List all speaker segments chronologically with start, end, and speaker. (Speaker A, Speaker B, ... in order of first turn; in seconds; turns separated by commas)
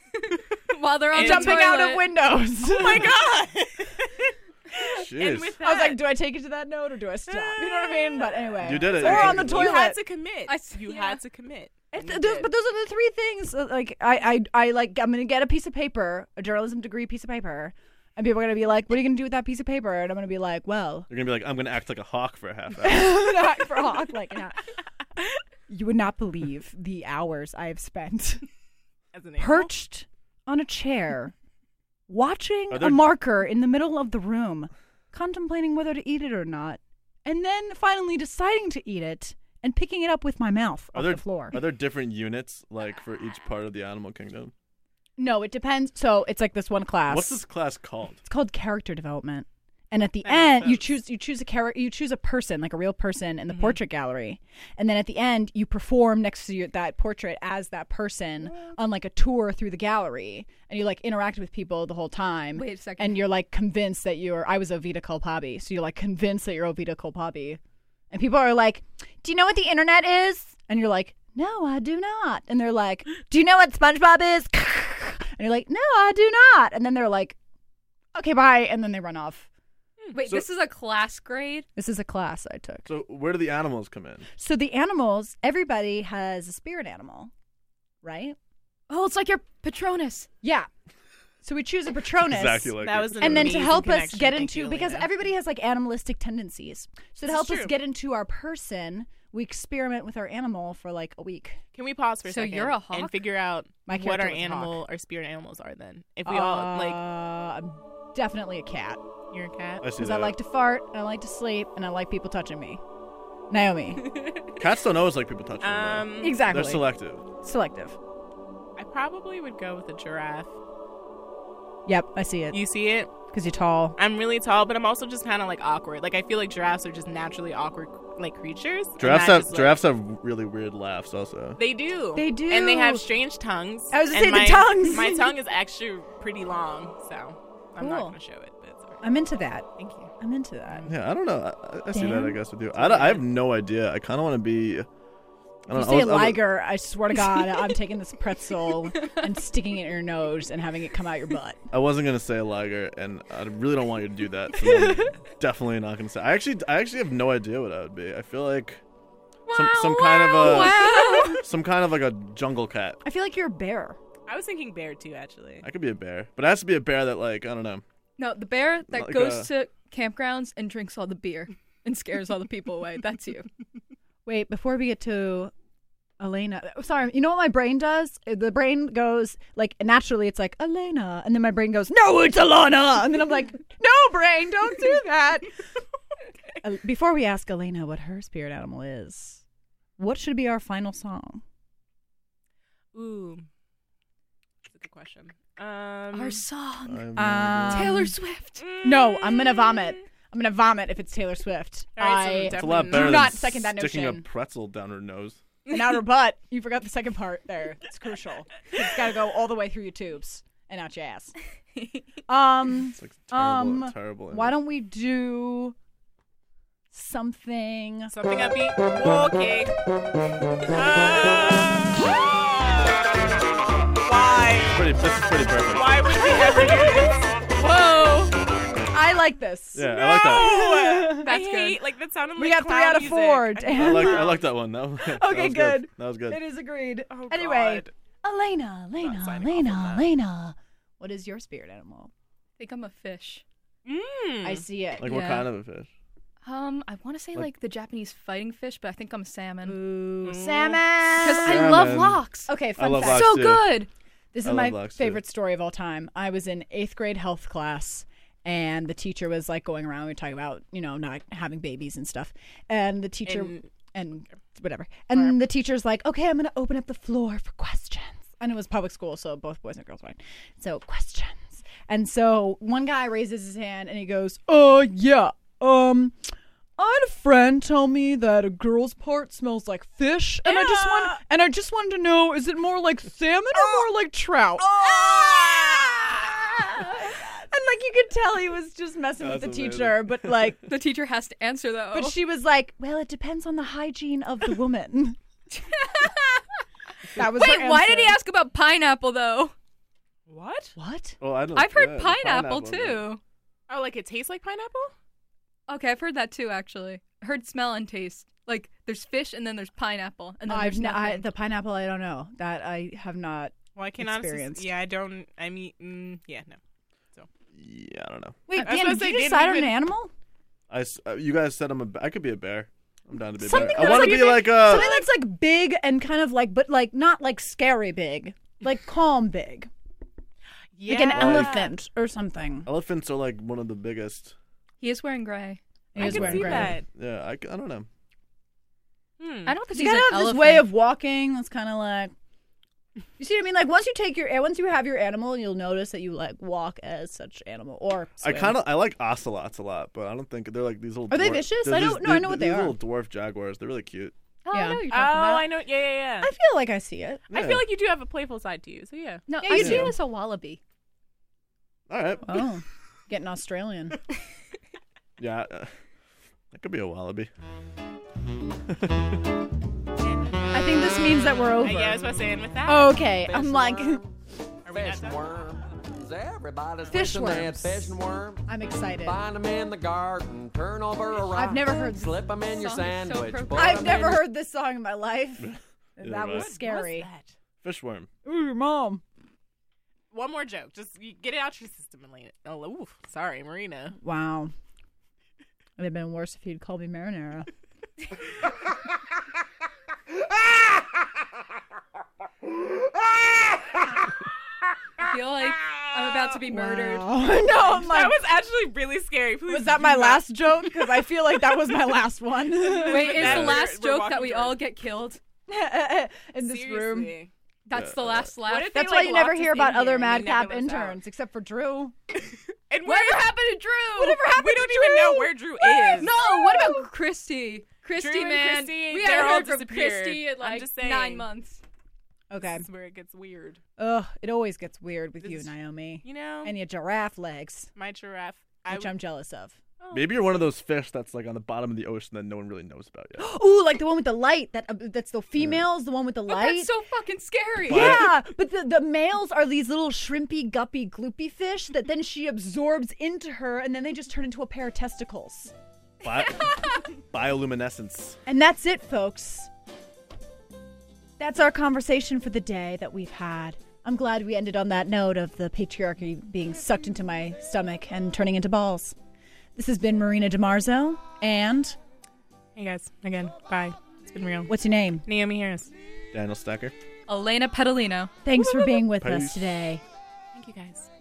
Speaker A: 0.7-2.2, Speaker B: 1.1-1.8, Speaker C: 1.1-3.2, Speaker B: 2.6-6.1, Speaker D: 4.9-5.6, Speaker C: 5.6-10.0, Speaker B: 7.3-12.5, Speaker D: 8.6-9.8, Speaker A: 10.5-11.2, Speaker C: 11.9-21.1, Speaker D: 21.1-23.3, Speaker C: 22.8-24.6, Speaker C: 25.7-28.5, Speaker B: 29.1-29.7, Speaker C: 29.4-31.3, Speaker C: 32.1-41.6, Speaker D: 32.7-33.1, Speaker D: 40.9-44.5, Speaker C: 45.2-47.4, Speaker D: 47.1-48.2, Speaker C: 48.2-67.6, Speaker B: 50.2-50.9, Speaker B: 53.5-53.8, Speaker A: 62.5-63.3, Speaker C: 68.1-77.4, Speaker C: 78.2-79.5, Speaker A: 80.1-81.7, Speaker C: 81.8-82.9, Speaker D: 82.9-84.3, Speaker C: 84.4-87.3, Speaker C: 88.0-88.4, Speaker A: 88.9-90.3, Speaker C: 90.4-90.7, Speaker C: 91.4-101.6, Speaker D: 92.2-93.7, Speaker B: 92.8-95.1, Speaker B: 97.2-97.8, Speaker B: 101.8-107.0, Speaker A: 102.2-103.2, Speaker C: 103.9-104.8, Speaker C: 106.2-109.0, Speaker B: 109.3-109.8, Speaker D: 109.8-110.4, Speaker C: 109.9-112.8, Speaker C: 113.5-114.3, Speaker D: 114.6-117.2, Speaker B: 115.6-116.5, Speaker C: 116.2-116.9, Speaker C: 117.4-118.0, Speaker B: 118.8-120.5, Speaker C: 121.9-124.0, Speaker B: 122.5-123.1, Speaker B: 124.0-129.8, Speaker D: 129.0-131.6, Speaker B: 131.6-139.2, Speaker C: 132.2-133.0, Speaker C: 133.9-135.4, Speaker C: 137.8-138.2, Speaker C: 139.0-139.7, Speaker B: 139.8-140.1, Speaker C: 140.2-140.9, Speaker D: 140.9-144.9, Speaker C: 141.9-142.4, Speaker B: 142.8-143.2, Speaker D: 145.7-146.5, Speaker C: 145.7-151.6, Speaker D: 151.7-158.8, Speaker A: 159.5-161.4, Speaker D: 159.5-163.0, Speaker C: 160.4-161.4, Speaker C: 163.0-164.0, Speaker B: 164.3-165.7, Speaker D: 165.6-167.8, Speaker A: 168.2-173.5, Speaker D: 168.9-169.5, Speaker C: 174.2-175.5, Speaker C: 176.2-185.5, Speaker C: 186.6-189.4, Speaker C: 190.0-191.4, Speaker B: 192.9-193.5, Speaker B: 194.7-196.4, Speaker A: 196.1-197.0, Speaker D: 196.8-198.1, Speaker C: 197.2-198.2, Speaker A: 197.7-198.7, Speaker B: 198.6-200.0, Speaker C: 198.8-204.3, Speaker B: 202.0-203.3, Speaker D: 202.5-205.4, Speaker C: 205.7-211.3, Speaker A: 211.8-212.0, Speaker C: 212.3-215.8, Speaker D: 212.9-214.6, Speaker C: 216.9-218.1, Speaker B: 218.1-219.8, Speaker B: 220.6-223.2, Speaker B: 224.0-224.9, Speaker D: 224.7-226.1, Speaker B: 225.7-227.3, Speaker A: 227.6-228.4, Speaker C: 228.9-231.3, Speaker D: 229.7-230.6, Speaker B: 230.0-234.5, Speaker A: 231.2-231.8, Speaker C: 232.4-234.3, Speaker D: 233.7-236.4, Speaker C: 235.0-242.1, Speaker B: 237.1-237.9, Speaker B: 239.0-240.1, Speaker A: 242.6-243.4, Speaker B: 243.8-244.6, Speaker C: 244.4-245.1, Speaker D: 245.0-245.9, Speaker A: 245.0-245.5, Speaker A: 246.4-249.8, Speaker C: 249.6-253.3, Speaker B: 250.2-250.9, Speaker A: 251.2-252.5, Speaker D: 251.4-253.8, Speaker A: 253.0-253.9, Speaker C: 254.3-290.6, Speaker D: 254.4-255.2, Speaker B: 263.3-263.7, Speaker A: 280.8-281.1, Speaker B: 284.6-286.1, Speaker D: 289.2-290.7, Speaker A: 290.6-292.2, Speaker C: 291.9-295.2, Speaker A: 295.6-296.6, Speaker C: 297.1-298.2, Speaker A: 297.2-299.5, Speaker B: 300.3-300.7, Speaker C: 300.8-301.2, Speaker D: 301.2-303.1, Speaker A: 301.5-303.2, Speaker B: 303.7-304.9, Speaker A: 305.7-311.3, Speaker C: 310.5-314.7, Speaker B: 313.8-316.6, Speaker D: 317.6-318.4, Speaker C: 318.5-320.1, Speaker B: 318.5-319.8, Speaker D: 320.7-324.9, Speaker C: 323.4-329.7, Speaker B: 323.5-325.0, Speaker B: 330.8-331.8, Speaker C: 330.9-332.7, Speaker D: 331.1-331.5, Speaker D: 332.7-334.4, Speaker A: 334.8-335.6, Speaker C: 335.9-336.8, Speaker D: 336.0-337.9, Speaker B: 336.0-336.9, Speaker B: 339.2-339.6, Speaker A: 339.5-340.7, Speaker C: 339.7-342.1, Speaker C: 343.2-348.6, Speaker D: 348.2-354.1, Speaker C: 351.1-352.8, Speaker A: 354.4-355.5, Speaker C: 354.5-354.9, Speaker B: 354.9-356.3, Speaker C: 356.2-357.2, Speaker B: 357.3-359.3, Speaker D: 357.3-357.7, Speaker A: 359.3-360.6, Speaker C: 359.4-360.0, Speaker D: 359.5-359.9, Speaker D: 361.9-362.5, Speaker C: 362.2-364.0, Speaker D: 365.2-365.7, Speaker D: 366.5-367.3, Speaker D: 368.7-369.2, Speaker B: 370.0-370.6, Speaker C: 370.5-372.1, Speaker B: 371.6-374.0, Speaker C: 372.6-374.0, Speaker B: 374.6-375.6, Speaker E: 374.8-378.2, Speaker C: 376.9-379.2, Speaker E: 379.1-383.8, Speaker C: 381.2-382.9, Speaker A: 382.5-384.2, Speaker C: 383.5-387.1, Speaker D: 385.4-386.5, Speaker B: 386.3-387.4, Speaker D: 387.6-388.1, Speaker C: 388.2-389.0, Speaker B: 390.1-394.0, Speaker C: 394.0-394.5, Speaker C: 395.8-397.5, Speaker A: 405.0-407.1, Speaker C: 406.5-408.2, Speaker B: 407.4-411.0, Speaker C: 409.5-413.3, Speaker B: 412.5-414.6, Speaker A: 412.8-415.2, Speaker D: 413.2-413.6, Speaker C: 415.5-417.1, Speaker B: 416.4-417.3, Speaker A: 417.7-419.8, Speaker D: 417.7-418.3, Speaker B: 418.5-421.0, Speaker C: 418.5-421.9, Speaker B: 422.7-423.4, Speaker A: 422.8-431.6, Speaker B: 424.0-426.2, Speaker C: 424.0-424.8, Speaker C: 426.0-426.8, Speaker B: 428.0-431.3, Speaker C: 432.3-432.6, Speaker B: 432.4-433.6, Speaker C: 433.8-437.7, Speaker B: 435.2-435.5, Speaker B: 436.0-436.5, Speaker B: 437.8-439.0, Speaker C: 438.6-439.6, Speaker B: 439.8-440.3, Speaker D: 439.9-443.3, Speaker C: 443.2-446.7, Speaker D: 445.4-445.6, Speaker A: 446.3-448.1, Speaker D: 447.7-448.2, Speaker C: 447.7-455.5, Speaker D: 456.0-458.2, Speaker C: 458.3-459.5, Speaker C: 461.2-468.9, Speaker C: 469.6-471.8, Speaker B: 472.6-475.7, Speaker C: 474.5-475.1, Speaker D: 476.1-476.7, Speaker A: 477.1-478.1, Speaker C: 478.2-479.8, Speaker B: 478.3-478.6, Speaker D: 479.0-479.8, Speaker B: 480.3-480.9